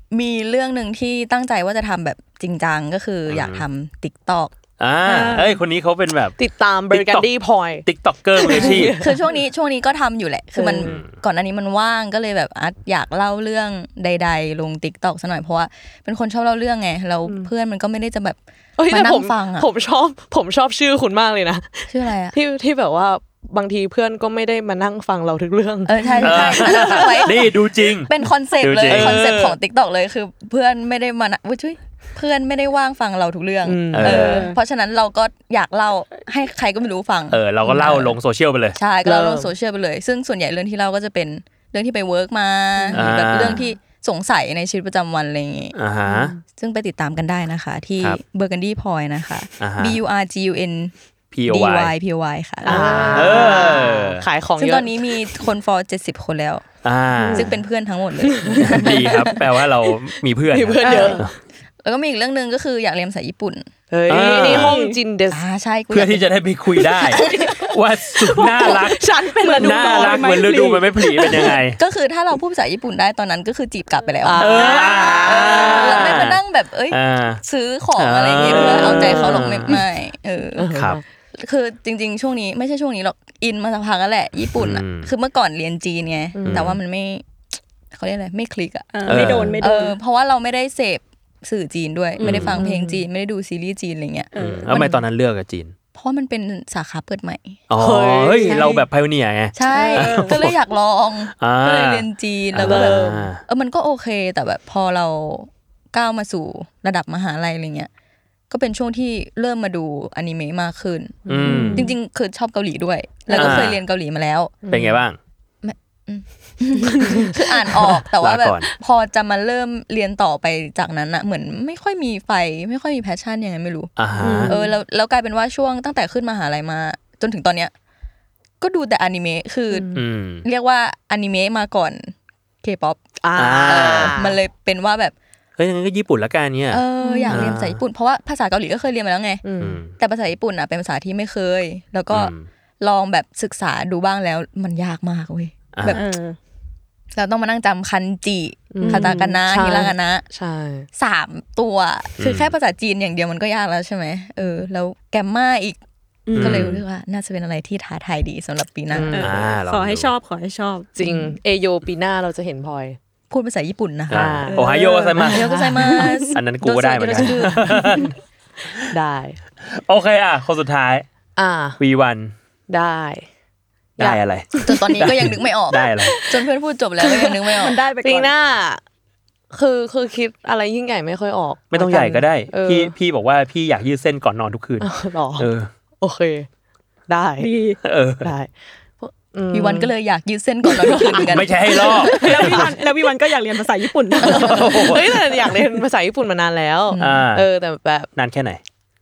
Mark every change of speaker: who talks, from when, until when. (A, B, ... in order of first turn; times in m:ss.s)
0:00.1-0:04.5 A
0:03.3-0:03.6 B
0:04.8-0:06.4 B
0:05.0-0:05.6 C
0:06.4-0:09.2 D
0:06.9-0:07.3 B
0:07.8-0:09.0 B
0:08.5-0:19.7 A
0:10.6-0:11.0 D
0:10.8-0:11.2 B
0:18.8-0:27.1 D
0:21.9-0:22.4 A
0:25.9-0:38.2 A
0:26.2-0:29.2 B
0:28.9-0:29.6 D
0:33.6-0:34.3 D
0:33.9-0:34.5 B
0:34.0-0:34.6 C
0:37.3-0:38.8 B
0:37.6-0:38.0 D
0:38.8-0:45.8 A
0:39.0-0:39.5 D
0:42.8-0:43.6 D
0:42.9-0:43.6 B
0:45.7-0:46.3 B
0:46.1-0:46.4 D
0:46.5-0:50.9 A
0:49.6-0:50.0 B
0:51.3-0:51.9 B
0:51.5-0:53.2 A
0:52.6-0:55.4 D
0:52.7-0:53.7 C
0:52.7-0:54.2 B
0:54.6-0:56.6 A
0:56.8-0:57.5 B
0:57.1-0:57.5 C
0:57.3-0:59.4 A
0:58.2-0:59.0 D
0:58.6-1:01.3 B
1:00.5-1:01.2 D
1:00.8-1:01.2 C
1:01.8-1:03.6 A
1:03.9-1:05.4 D
1:04.1-1:04.8 B
1:04.1-1:05.0 C
1:05.3-1:07.7 A
1:05.9-1:11.8 B
1:08.3-1:11.6 D
1:09.4-1:11.5 C
1:11.7-1:20.7 A
1:14.2-1:16.2 D
1:14.4-1:17.4 B
1:14.4-1:15.7 C
1:18.0-1:19.8 B
1:18.4-1:19.8 D
1:20.6-1:21.0 D
1:20.7-1:21.0 B
1:21.3-1:35.0 A
1:24.6-1:25.1 B
1:26.3-1:26.7 D
1:26.5-1:26.8 B
1:28.9-1:30.0 C
1:29.1-1:29.6 B
1:29.1-1:29.6 D
1:32.2-1:32.6 C
1:32.2-1:32.6 B
1:32.6-1:33.0 D
1:34.3-1:34.7 C
1:34.4-1:35.7 B
1:35.9-1:37.6 A
1:37.7-1:40.5 B
1:37.8-1:38.8 D
1:38.4-1:38.8 A
1:39.6-1:47.9 A
1:39.7-1:40.4 C
1:41.4-1:43.4 B
1:42.6-1:43.3 D
1:48.5-1:54.6 A
1:51.2-1:51.9 D
1:51.3-1:51.9 B
1:51.4-1:51.8 C
1:53.3-1:53.8 B
1:53.3-1:53.6 D
1:54.6-1:55.0 D
1:54.7-1:55.2 B
1:55.6-2:03.9 A
1:57.0-1:57.4 D
1:58.2-1:58.7 B
2:04.0-2:04.5 B
2:04.2-2:04.7 D
2:04.4-2:07.7 A
2:08.6-2:13.0 A
2:09.7-2:10.0 D
2:09.9-2:10.4 B
2:13.2-2:14.4 D
2:13.4-2:14.2 B
2:13.6-2:15.1 A
2:15.6-2:17.8 B
2:16.7-2:19.4 A
2:17.0-2:17.4 C
2:17.1-2:17.5 D
2:19.4-2:19.8 D
2:19.6-2:19.9 B
2:20.0-2:26.0 A
2:22.1-2:22.5 B
2:25.7-2:26.0 B
2:25.9-2:26.4 C
2:27.1-2:30.2 A
2:28.7-2:30.9 D
2:28.8-2:29.4 C
2:31.0-2:35.8 A
2:32.2-2:32.5 B
2:36.3-2:36.7 C
2:36.4-2:36.8 B
2:36.4-2:39.2 A
2:38.9-2:39.4 D
2:39.1-2:40.9 C
2:39.2-2:40.1 B
2:41.0-2:43.0 D
2:43.3-2:44.4 A
2:44.1-2:45.5 B
2:44.1-2:46.1 D
2:44.5-2:45.1 C
2:45.2-2:48.0 A
2:46.0-2:46.3 C
2:46.3-2:48.1 B
2:47.0-2:48.0 C
2:48.9-2:49.4 D
2:49.7-2:51.0 B
2:51.4-2:51.8 D
2:51.8-2:52.3 B
2:52.7-2:53.3 D
2:54.0-2:55.4 D
2:54.0-2:56.1 B
2:54.6-2:57.8 A
2:57.0-2:58.8 D
2:57.5-2:58.3 C
2:59.5-3:02.9 D
3:01.7-3:05.7 B
3:04.8-3:05.5 D
3:06.0-3:06.5 D
3:07.1-3:07.5 D
3:07.4-3:07.8 C
3:07.8-3:08.3 B
3:08.2-3:09.9 D
3:09.5-3:12.1 A
3:10.6-3:12.7 D
3:11.2-3:12.6 B
3:11.8-3:14.9 C
3:14.2-3:18.1 D
3:14.2-3:15.2 B
3:16.9-3:17.2 A
3:17.0-3:17.4 B
3:18.2-3:18.6 B